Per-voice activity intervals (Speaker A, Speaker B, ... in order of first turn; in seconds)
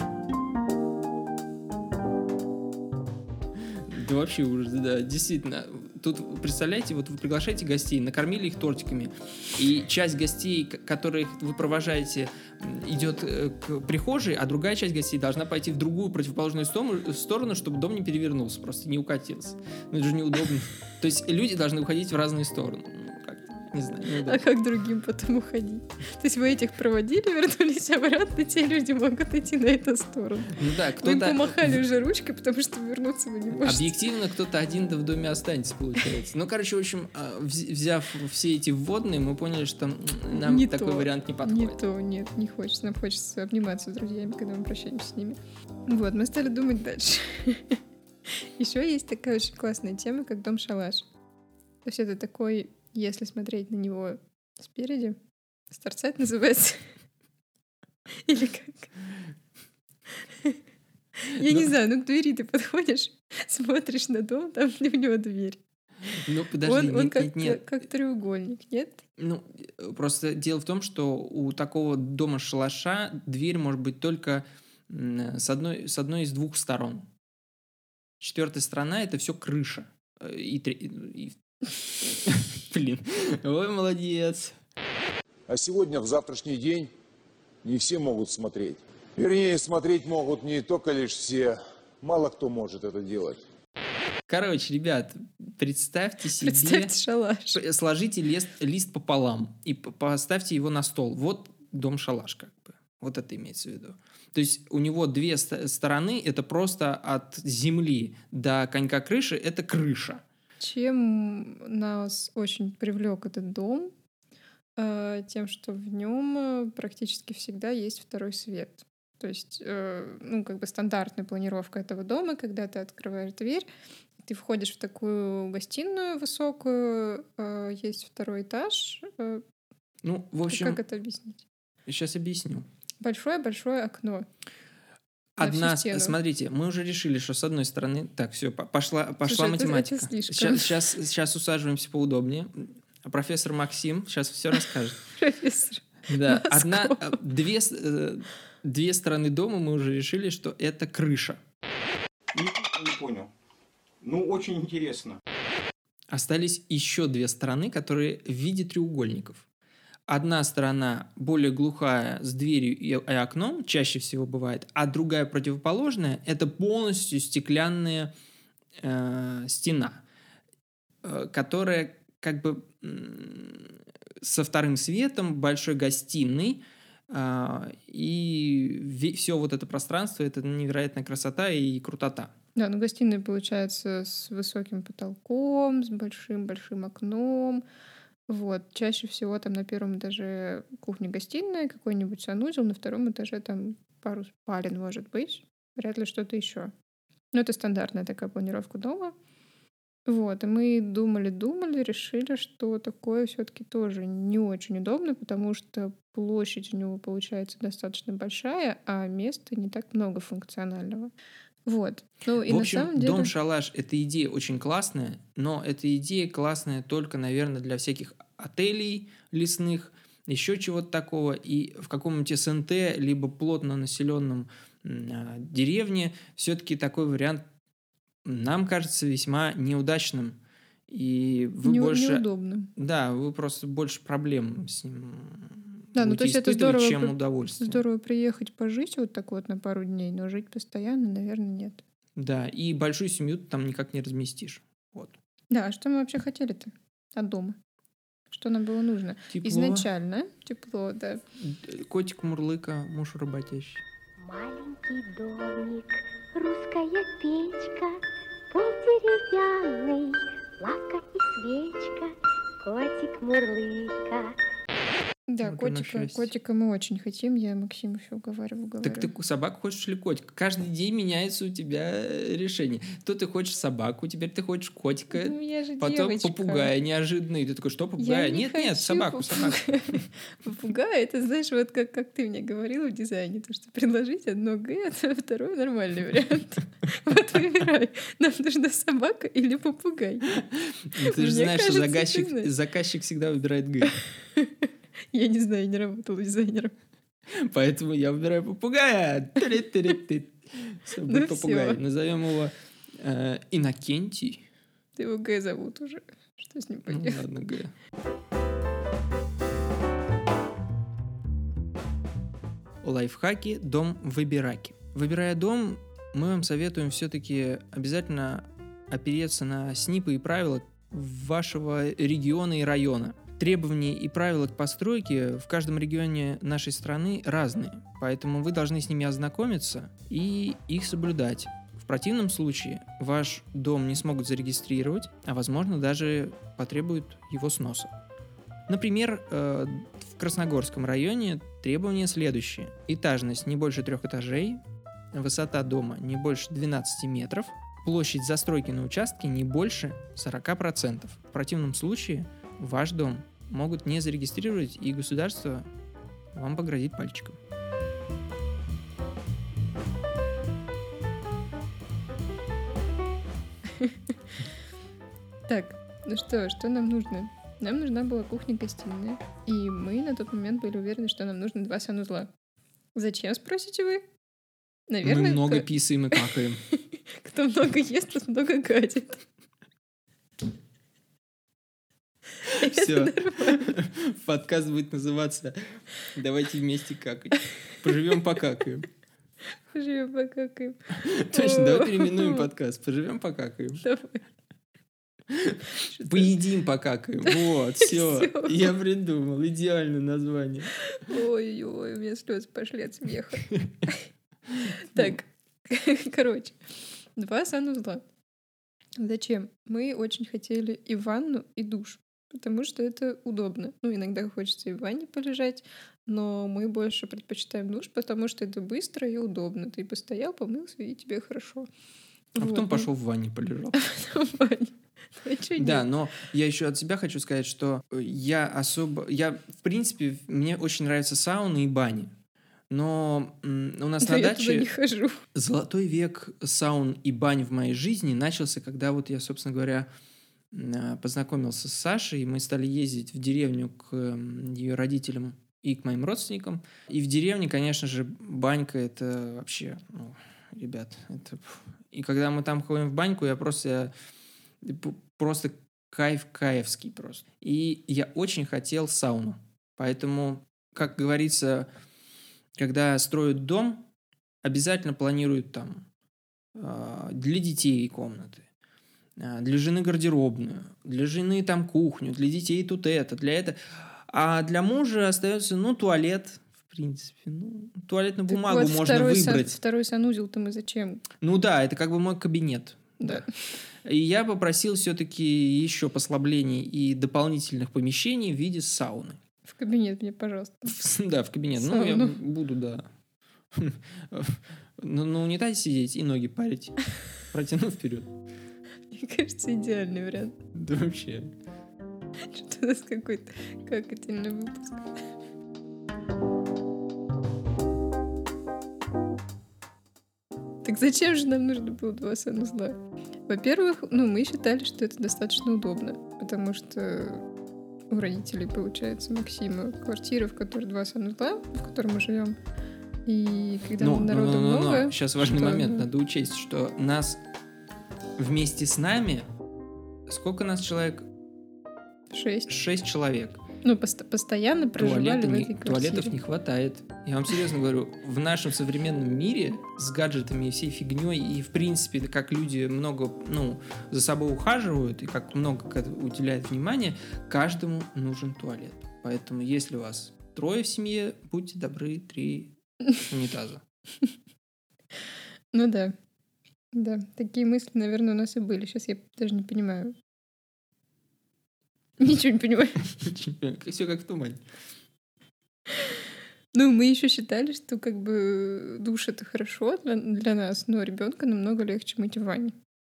Speaker A: 3.6-24.4, 30.5-31.8, 33.6-41.8, 61.4-61.7, 66.2-67.7, 69.2-77.1, 78.2-81.4, 82.0-84.6, 94.3-96.9, 97.5-110.2, 130.0-130.8, 131.9-132.7, 135.4-145.1, 146.1-151.4, 156.1-159.4, 160.1-168.1, 168.8-170.0, 171.0-182.3, 212.5-227.4, 228.2-232.2, 232.8-237.8, 242.2-245.2, 249.3-249.9, 251.4-253.8, 265.4-266.3, 268.8-280.0, 290.4-294.0, 297.3-304.4, 306.9-307.7, 312.8-337.9, 338.7-344.6, 345.1-355.7, 356.3-357.4, 375.0-376.6, 382.5-388.9, 390.9-393.8, 395.3-400.7, 403.5-403.8, 422.4-423.8, 425.6-432.1, 432.7-434.7, 435.3-439.9, 440.5-453.9, 454.6-461.7, 462.6-463.8, 464.4-465.8, 466.6-468.5, 469.2-479.6, 481.2-483.2, 483.8-489.2, 490.7-492.9, 493.5-498.1, 500.5-501.3, 523.8-527.2, 528.2-529.3, 530.1-531.1, 532.5-533.4, 534.8-552.5, 553.0-553.6, 563.0-564.4
Speaker B: 24.2-34.0, 40.3-51.1, 51.9-55.2, 55.7-56.9, 58.2-58.9, 61.2-65.6, 66.6-69.0, 96.4-97.6, 110.6-113.9, 114.8-123.7, 124.2-129.4, 130.5-131.4, 133.0-134.3, 135.4-136.2, 139.2-140.9, 145.1-147.2, 182.6-187.6, 188.3-196.7, 197.3-199.1, 200.1-211.1, 211.7-213.3, 231.6-232.7, 235.9-241.8, 245.5-247.6, 248.3-251.2, 265.3-269.1, 275.1-276.7, 278.0-290.3, 290.9-292.5, 294.0-296.7, 301.1-301.8, 305.0-307.2, 365.5-372.3, 372.9-374.0, 374.9-376.2, 376.7-379.2, 382.4-383.7, 389.7-392.5, 393.8-394.2, 395.8-396.3, 397.3-398.7, 400.9-404.1, 404.8-406.6, 407.1-408.1, 409.0-421.7, 422.4-422.9, 423.8-425.9, 434.0-435.2, 478.3-481.1, 483.0-483.3, 489.4-490.8, 491.6-492.2, 498.9-500.4, 502.2-504.9, 510.6-517.2, 517.9-522.4, 523.1-525.9, 532.1-532.5, 533.6-536.1, 555.5-555.9, 556.7-559.9, 562.0-562.9, 565.7-566.0, 566.5-572.5
Speaker C: 85.5-86.9, 87.6-93.4
Speaker D: 152.3-153.3, 154.0-155.2
Speaker E: 254.2-264.4